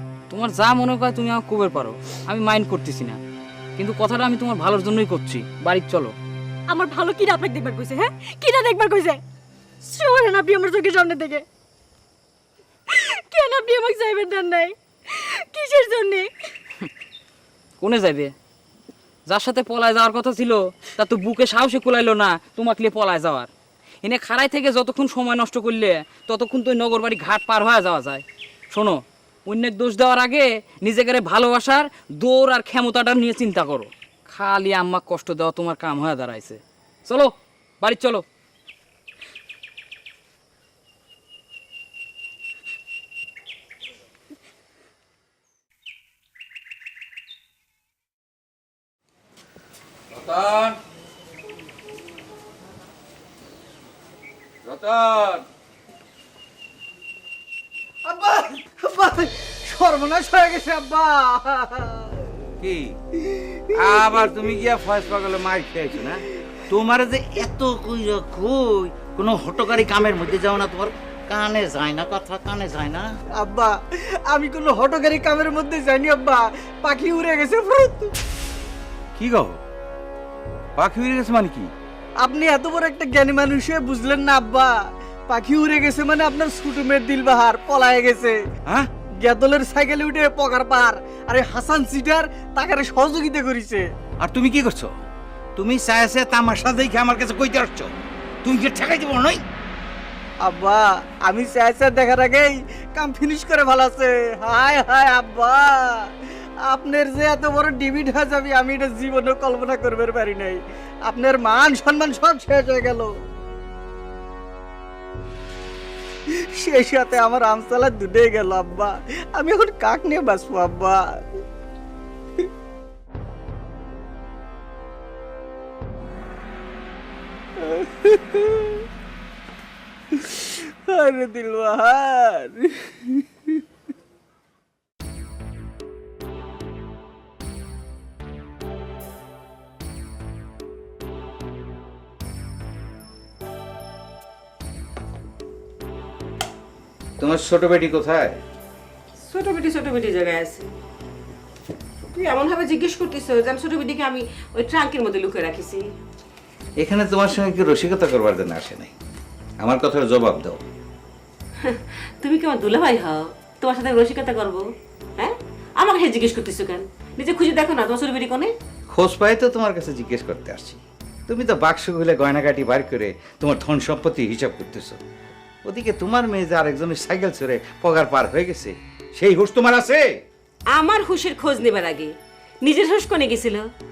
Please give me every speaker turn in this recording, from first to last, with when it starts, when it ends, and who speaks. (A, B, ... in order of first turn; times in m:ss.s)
0:00.3-0:03.2 A
0:03.8-0:06.1 A
0:06.7-0:09.2 B
0:09.8-0:11.4 B
0:12.9-0:14.7 B
0:15.5-0:16.3 B
0:17.8-0:18.3 A
0:19.2-0:23.5 A
0:24.0-0:38.2 A
0:54.7-0:55.4 C
0:58.1-1:01.9 D
1:02.6-1:02.9 C
1:03.8-1:13.1 C
1:13.4-1:13.7 D
1:14.3-1:18.1 D
1:19.2-1:19.6 C
1:20.8-1:21.7 C
1:22.2-1:24.7 D
1:25.3-1:28.3 D
1:29.2-1:33.8 D
1:34.2-1:34.9 C
1:35.6-1:37.9 C
1:38.4-1:39.4 C
1:40.5-1:45.7 D
1:46.7-1:50.6 D
1:51.1-1:53.1 D
1:56.6-2:01.0 D
2:11.0-2:12.1 D
2:27.2-2:28.4 C
2:29.2-2:30.7 E
2:32.1-2:35.9 E
2:36.8-2:38.9 C
2:39.6-2:40.6 C
2:41.6-2:44.6 E
2:45.2-2:48.5 E
2:48.9-2:55.0 C
2:55.7-3:00.0 C
3:00.7-3:03.7 E